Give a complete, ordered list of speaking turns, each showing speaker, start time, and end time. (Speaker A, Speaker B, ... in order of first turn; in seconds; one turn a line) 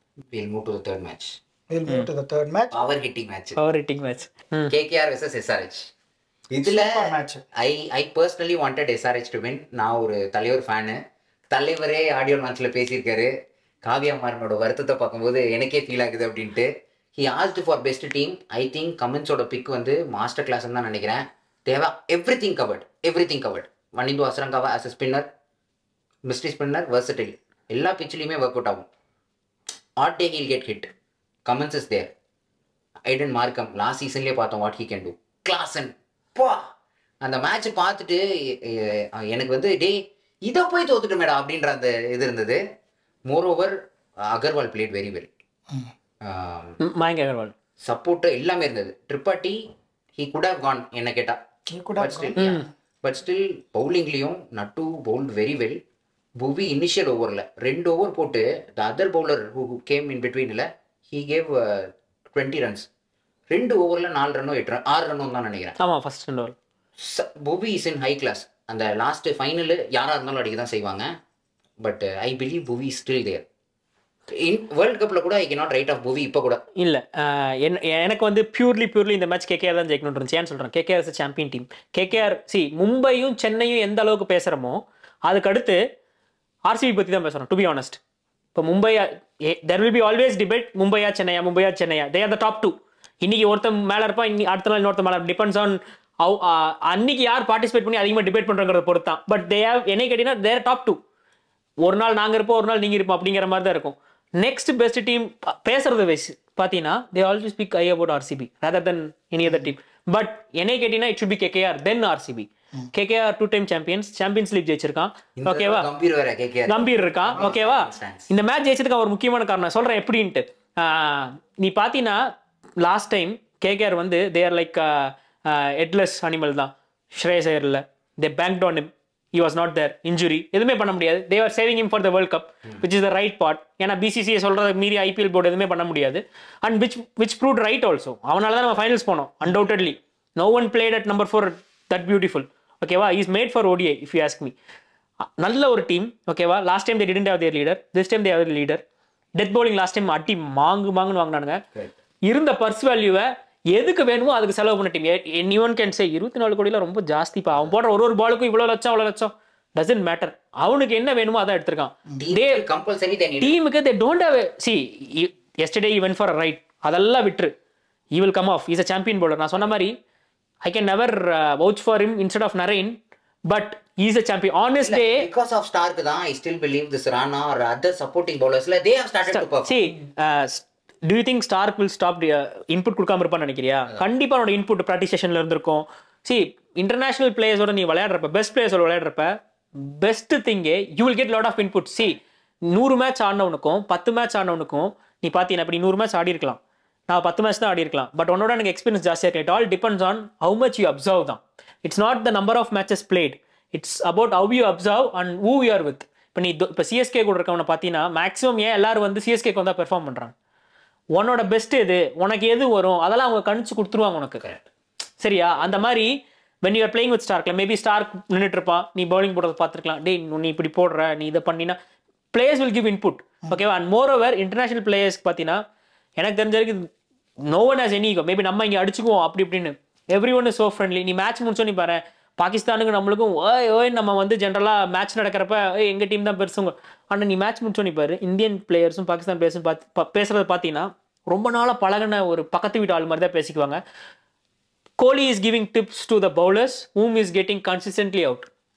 Speaker A: 0.3-1.4
Speaker B: 1.7-2.8
Speaker A: 2.7-3.6
Speaker C: 3.6-4.7
Speaker A: 4.7-5.9
Speaker A: 6.5-11.0
Speaker B: 6.6-7.4
Speaker A: 11.5-13.3
Speaker A: 13.8-25.3
Speaker A: 26.3-28.9
Speaker A: 30.0-30.9
Speaker A: 31.5-32.1
Speaker A: 33.1-36.7
Speaker A: 37.2-42.6
Speaker A: 43.3-45.3
Speaker A: 46.2-46.8
Speaker C: 46.8-47.5
Speaker A: 47.8-49.6
Speaker A: 50.2-51.4
Speaker B: 51.7-52.7
Speaker A: 52.0-55.8
Speaker C: 52.4-52.7
Speaker A: 56.4-62.9
Speaker A: 63.5-65.8
Speaker C: 65.8-66.5
Speaker A: 67.0-71.1
Speaker A: 71.8-73.5
Speaker A: 74.3-76.6
Speaker C: 76.8-85.8
Speaker C: 86.7-88.0
Speaker C: 88.6-101.0
Speaker C: 101.8-115.9
Speaker A: 115.4-118.3
Speaker C: 116.7-122.3
Speaker C: 122.8-144.5
Speaker C: 145.4-148.8
Speaker C: 149.4-151.6
Speaker C: 152.3-162.6
Speaker A: 162.2-163.6
Speaker C: 163.4-167.5
Speaker C: 168.1-169.9
Speaker C: 170.6-175.3
Speaker A: 174.8-179.8
Speaker C: 179.3-210.3
Speaker C: 211.2-214.4
Speaker C: 215.2-221.8
Speaker C: 222.3-225.6
Speaker C: 226.2-226.9
Speaker C: 227.5-243.8
Speaker C: 245.0-248.5